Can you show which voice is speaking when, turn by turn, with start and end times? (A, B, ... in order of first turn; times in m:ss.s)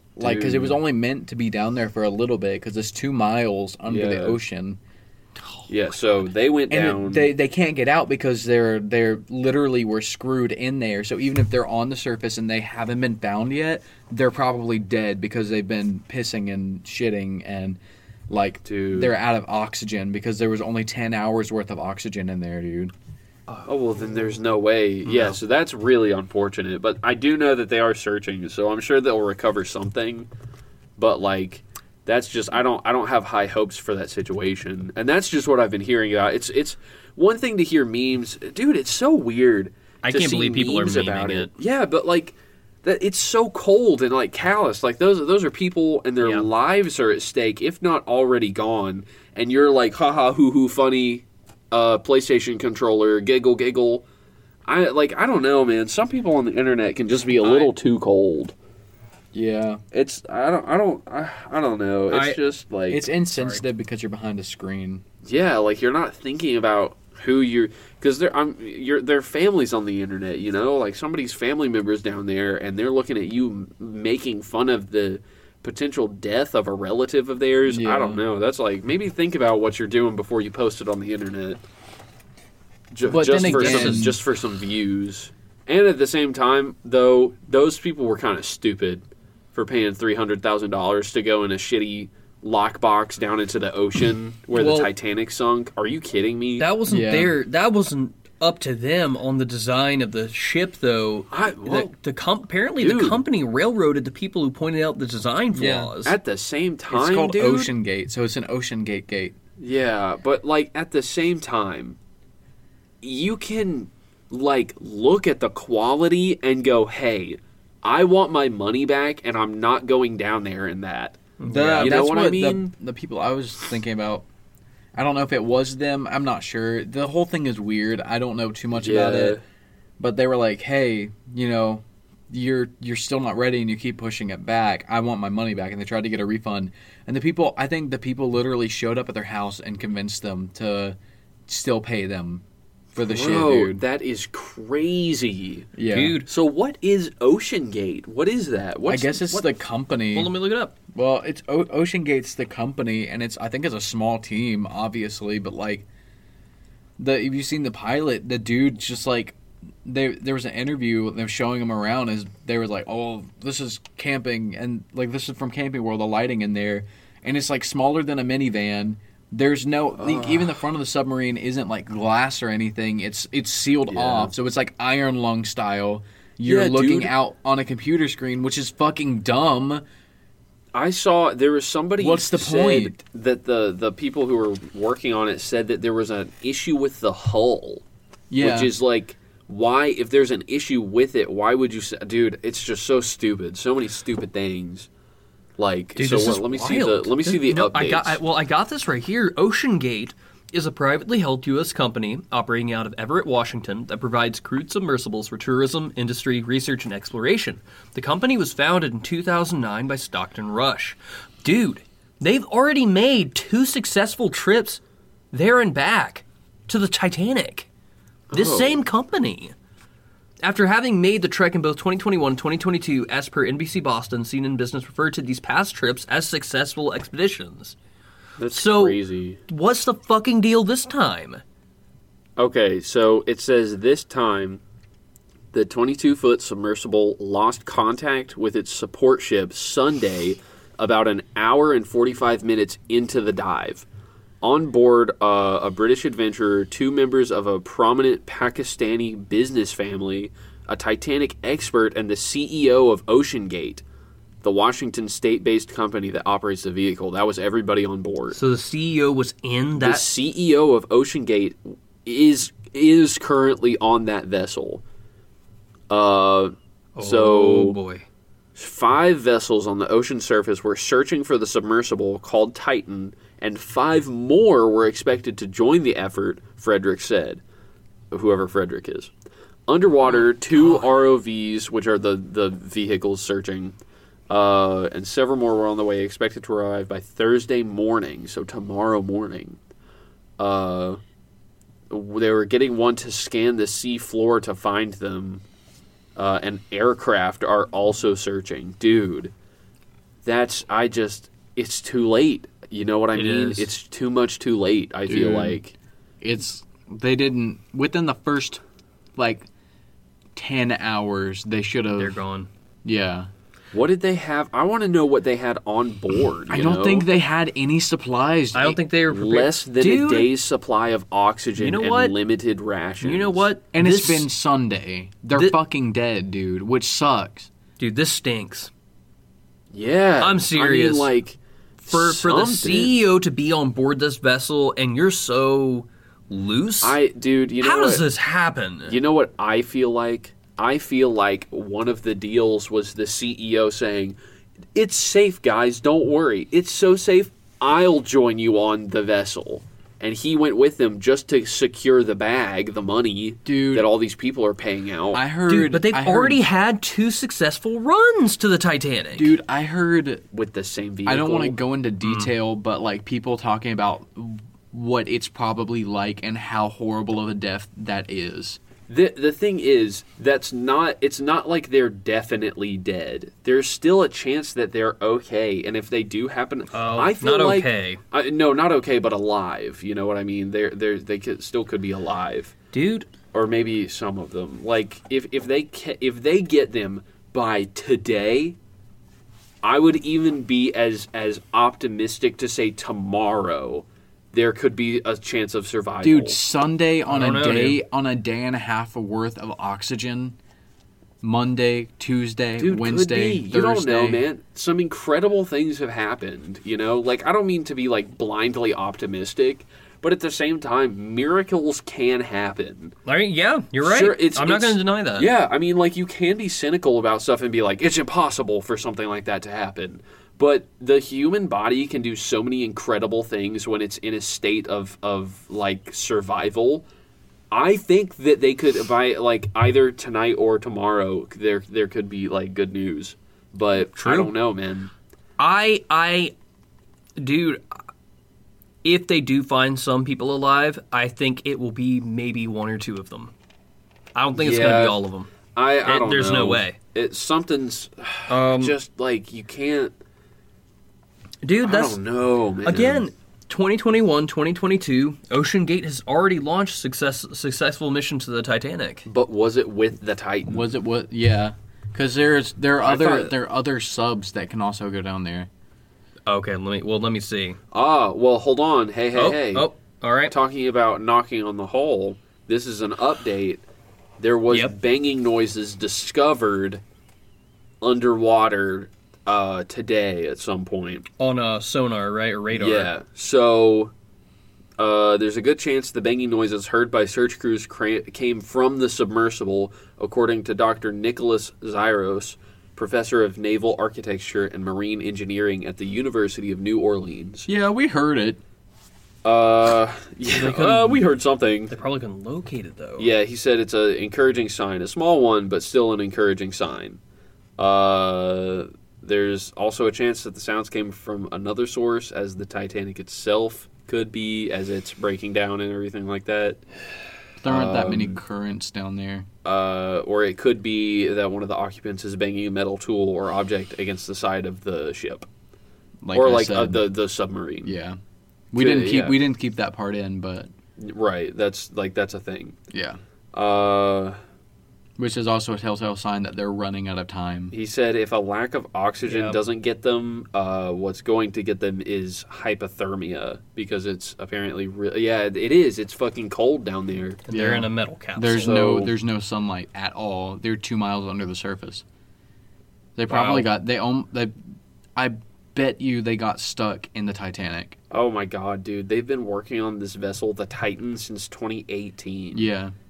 0:00.2-0:04.8 A
0:00.2-0:00.8 B
0:03.9-0:04.4 B
0:05.7-0:07.3 B
0:06.7-0:22.9 A
0:18.6-0:19.1 B
0:23.6-0:30.3 B
0:25.0-0:25.4 C
0:31.0-0:54.0 B
0:40.0-0:41.5 C
0:46.2-0:46.5 C
0:54.7-0:58.5 B
0:57.4-0:57.7 C
0:59.3-0:59.8 A
0:59.9-1:03.1 B
1:02.1-1:02.4 C
1:02.9-1:05.0 A
1:05.2-1:21.6 B
1:17.7-1:18.2 A
1:22.9-1:36.7 B
1:23.0-1:24.2 A
1:23.4-1:24.0 C
1:34.5-1:34.9 C
1:36.6-1:46.2 C
1:36.9-1:37.3 A
1:41.3-1:41.9 B
1:42.8-1:43.2 B
1:45.5-1:45.9 A
1:46.0-1:47.7 B
1:46.9-1:49.4 A
1:49.6-1:52.0 B
1:53.0-2:01.2 B
2:01.4-2:02.0 C
2:01.4-2:04.2 A
2:01.8-2:02.7 B
2:05.0-2:09.4 A
2:08.8-2:09.4 B
2:10.0-2:22.4 A
2:23.0-2:23.8 A
2:23.0-2:25.7 B
2:25.8-2:26.2 A
2:25.9-2:26.3 C
2:26.3-2:29.5 B
2:28.9-2:30.4 A
2:30.1-2:30.7 C
2:30.9-2:35.9 A
2:37.0-2:59.8 A
2:50.0-2:50.6 B
2:53.9-2:54.3 B
2:56.4-2:57.1 B
3:00.7-3:07.8 B
3:02.0-3:03.0 A
3:08.3-3:08.7 A
3:08.4-3:14.9 B
3:15.6-3:18.2 B
3:16.0-3:34.8 C
3:35.3-3:37.7 C
3:38.3-3:38.8 B
3:38.3-3:39.6 C
3:40.4-3:47.8 C
3:48.4-3:49.4 B
3:48.5-3:51.4 C
3:52.4-3:54.6 B
3:55.5-4:03.8 B
4:04.4-4:13.8 B
4:14.4-4:18.4 B
4:18.3-4:20.1 C
4:19.8-4:24.8 B
4:25.9-4:27.8 B
4:27.0-4:28.0 C
4:28.6-4:37.4 B
4:38.1-4:39.1 B
4:39.7-4:43.8 B
4:40.1-4:40.8 C
4:44.3-4:49.6 B
4:50.4-4:51.0 B
4:51.9-4:55.4 B
4:56.2-4:59.3 B
5:00.2-5:05.7 B
5:03.1-5:03.7 C
5:05.1-5:05.6 A
5:06.2-5:08.6 A
5:09.2-5:09.5 A
5:10.4-5:12.2 A
5:12.0-5:12.5 C
5:12.8-5:13.3 A
5:13.7-5:17.1 B
5:16.5-5:18.8 A
5:18.5-5:20.3 C
5:19.1-5:23.5 B
5:21.6-5:22.1 C
5:23.0-5:24.3 C
5:23.7-5:27.5 A
5:27.8-5:28.7 C
5:29.7-5:32.9 B
5:30.2-5:31.1 C
5:31.9-5:37.0 C
5:36.8-5:38.0 B
5:37.6-5:39.0 C
5:38.9-5:44.2 B
5:44.7-5:55.2 B
5:53.4-5:53.9 A
5:55.1-5:56.4 A
5:55.5-5:59.3 C
5:59.1-6:00.2 A
6:00.3-6:01.6 B
6:01.0-6:08.6 A
6:02.0-6:02.3 C
6:08.9-6:22.6 B
6:16.7-6:18.0 C
6:22.7-6:23.1 C
6:23.3-6:28.6 B
6:29.6-6:36.4 B
6:36.0-6:40.4 A
6:37.1-6:37.8 C
6:41.2-6:44.2 A
6:42.6-6:53.0 B
6:53.0-6:55.3 C
6:53.8-7:06.9 B
7:07.5-7:14.9 B
7:13.9-7:14.3 C
7:15.4-7:16.3 C
7:17.2-7:17.6 C
7:18.8-7:23.3 C
7:24.1-7:25.3 C
7:24.4-7:25.0 B
7:25.6-7:29.9 B
7:25.8-7:26.8 C
7:28.3-7:28.8 C
7:31.4-7:32.0 C
7:31.6-7:33.0 B
7:32.6-7:39.0 C
7:39.0-7:40.7 B
7:40.5-7:45.5 A
7:42.8-7:43.3 B
7:46.3-7:47.6 C
7:47.7-7:49.7 B
7:49.1-7:50.4 C
7:50.3-7:53.6 B
7:54.2-7:56.8 B
7:54.5-7:54.8 C
7:57.8-8:01.1 B
8:01.2-8:02.9 C
8:02.5-8:03.9 B
8:04.8-8:17.5 B
8:17.5-8:18.4 A
8:19.2-8:21.7 B
8:20.3-8:21.0 C
8:21.7-8:23.1 C
8:23.0-8:27.0 B
8:27.6-8:36.6 B
8:37.4-8:39.3 A
8:37.4-8:38.2 B
8:39.4-8:45.3 B
8:46.0-8:46.9 A
8:46.1-8:47.7 B
8:47.6-8:48.0 A
8:48.5-8:50.5 A
8:48.6-8:49.2 B
8:50.8-8:52.6 B
8:52.7-8:53.0 A
8:53.3-8:54.2 B
8:55.0-8:57.5 A
8:57.5-9:07.2 B
8:59.0-8:59.4 C
9:07.3-9:08.6 C
9:07.3-9:11.8 A
9:08.4-9:08.9 B
9:13.0-9:14.4 A
9:13.1-9:13.4 C
9:15.0-9:17.8 A
9:17.9-9:22.4 B
9:22.3-9:22.7 A